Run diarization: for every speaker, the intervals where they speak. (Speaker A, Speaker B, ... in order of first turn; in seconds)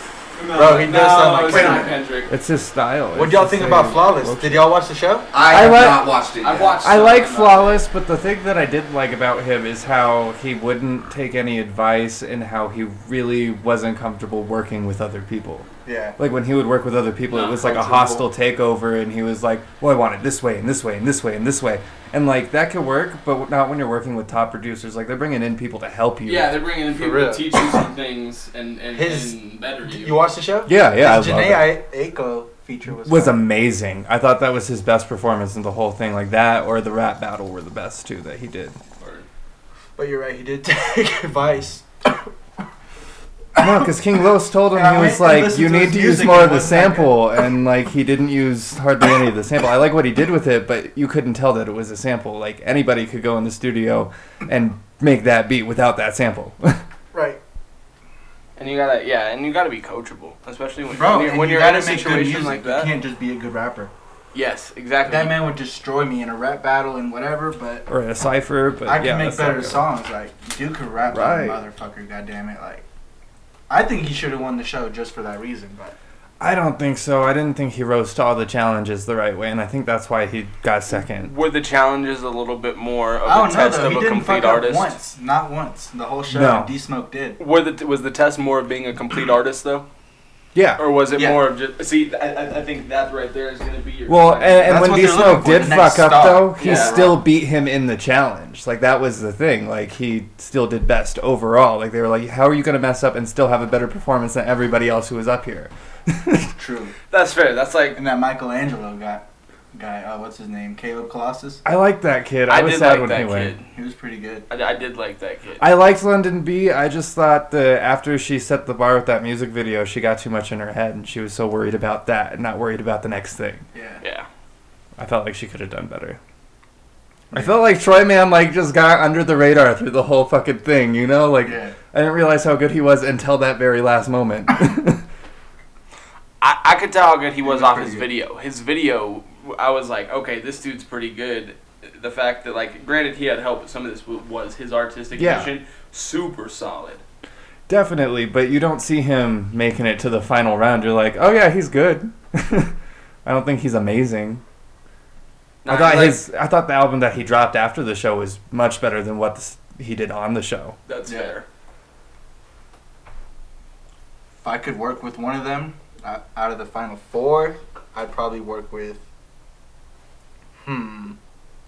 Speaker A: 0.4-2.3, 6.4-7.8, 17.3-18.2, 26.2-30.3, 39.0-39.3, 58.6-63.0, 64.3-65.5, 81.2-85.0, 87.4-89.9, 90.8-95.0, 96.6-97.0, 107.1-108.0, 112.5-113.7, 114.5-115.7, 124.0-124.3, 136.4-147.0, 155.6-156.2, 160.8-161.4
Speaker B: 0.4-2.0, 5.3-6.8
Speaker C: 0.5-2.0, 3.1-5.3, 15.8-16.2, 26.9-27.6, 28.9-33.4, 40.0-42.3, 44.7-47.3, 57.1-57.4, 60.9-63.9, 65.0-67.8, 68.8-72.8, 73.7-76.0, 83.2-87.4, 91.1-91.5, 94.6-97.2, 106.5-106.9, 108.0-111.6, 113.7-114.5, 123.7-124.0, 127.3-127.6, 131.4-131.7, 137.4-138.1, 161.1-161.3, 164.4-169.0, 170.6-171.2
Speaker D: 2.3-4.8, 5.4-6.2, 6.8-26.6, 30.6-31.8, 33.0-38.8, 43.5-56.8, 67.9-69.8, 71.1-71.6, 76.4-81.3, 86.3-86.7, 90.5-90.8, 94.1-106.5, 111.6-113.5, 115.6-123.6, 125.0-126.2, 127.3-135.0, 145.1-145.5, 147.7-152.7, 153.2-154.4, 155.7-160.8